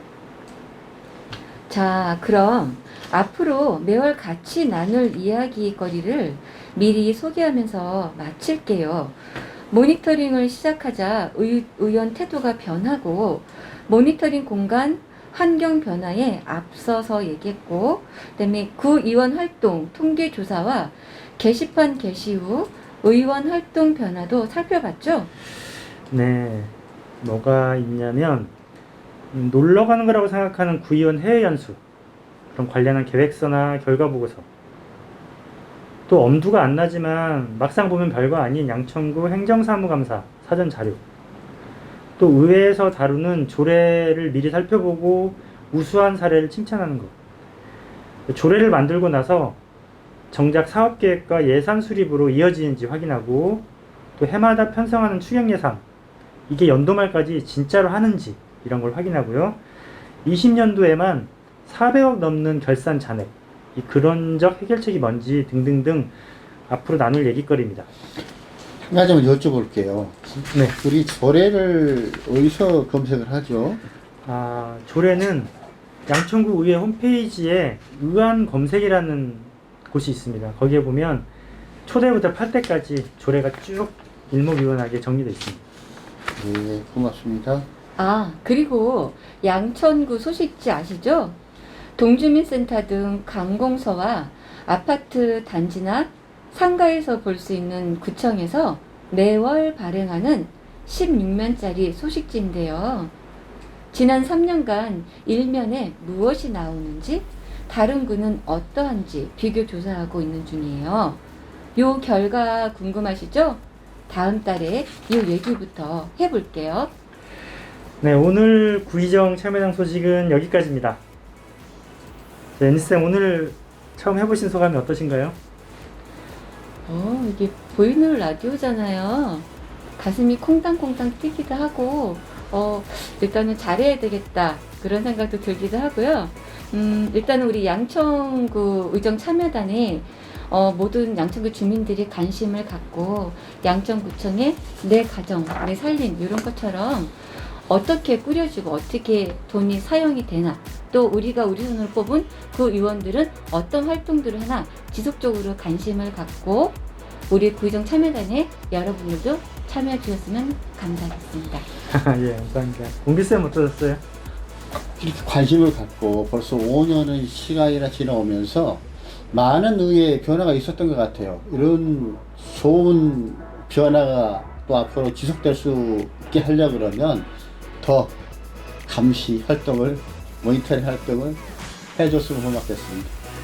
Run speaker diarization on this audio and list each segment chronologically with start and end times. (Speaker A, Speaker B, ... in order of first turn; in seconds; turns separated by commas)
Speaker A: 1.7-25.3, Speaker B: 26.1-28.5, Speaker B: 29.3-31.8, Speaker B: 32.5-34.5, Speaker B: 36.1-41.0, Speaker B: 42.2-47.1, Speaker B: 48.3-49.6, Speaker B: 50.3-53.6, Speaker B: 54.2-55.8, Speaker B: 56.5-59.6, Speaker B: 60.2-66.1, Speaker B: 66.7-67.9, Speaker C: 68.8-73.8, Speaker B: 70.5-70.8, Speaker B: 74.2-75.5, Speaker B: 76.1-81.3, Speaker B: 81.8-85.6, Speaker C: 86.4-87.7, Speaker A: 88.0-91.4, Speaker A: 92.0-103.1, Speaker A: 103.9-111.2, Speaker A: 111.8-116.9, Speaker B: 118.0-121.0, Speaker B: 122.6-125.3, Speaker A: 126.8-156.8, Speaker A: 157.3-161.7, Speaker B: 161.9-164.0, Speaker C: 165.0-177.3, Speaker C: 177.8-178.1, Speaker C: 178.8-181.4, Speaker C: 181.9-183.1